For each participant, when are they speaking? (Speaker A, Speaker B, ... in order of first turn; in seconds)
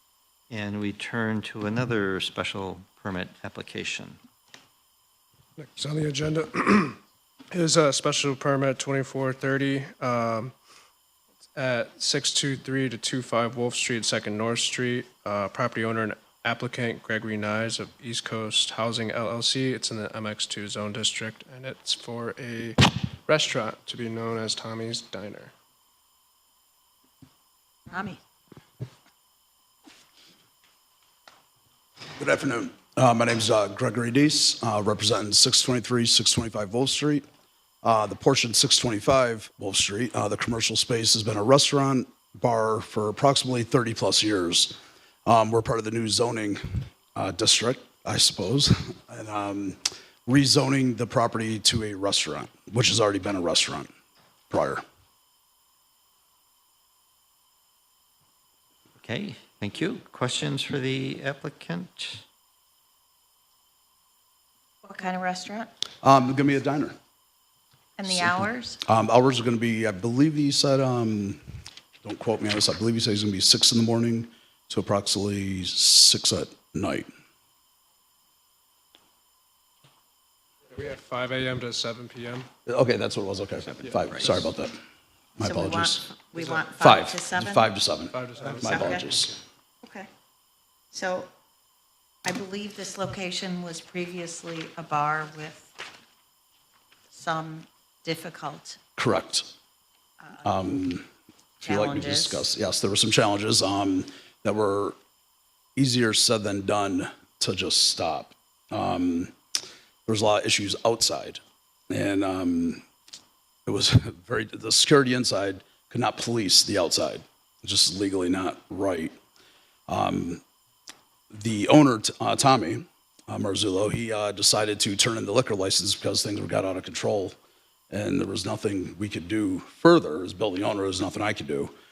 Speaker A: 0.5-4.2, 59.0-62.2
Speaker B: 5.6-7.0, 7.5-10.5, 11.5-25.5, 80.7-82.5, 86.3-86.7, 88.1-89.3
Speaker C: 27.9-28.2, 64.8-65.7, 68.0-68.8, 85.4-87.7, 88.6-89.1, 89.8-90.1, 90.9-91.3, 92.2-95.8, 97.1-98.8, 100.2-100.5, 101.6-102.5
Speaker D: 32.2-37.2, 37.8-53.9, 54.5-54.8, 66.0-67.0, 68.1-71.4, 72.0-77.1, 82.7-84.8, 85.4-86.1, 86.8-89.3, 99.0-99.5, 100.4-101.0, 101.6-105.0, 105.8-109.3, 110.1-112.8, 113.7-119.2, 119.9-120.4, 121.3-127.3, 127.9-131.7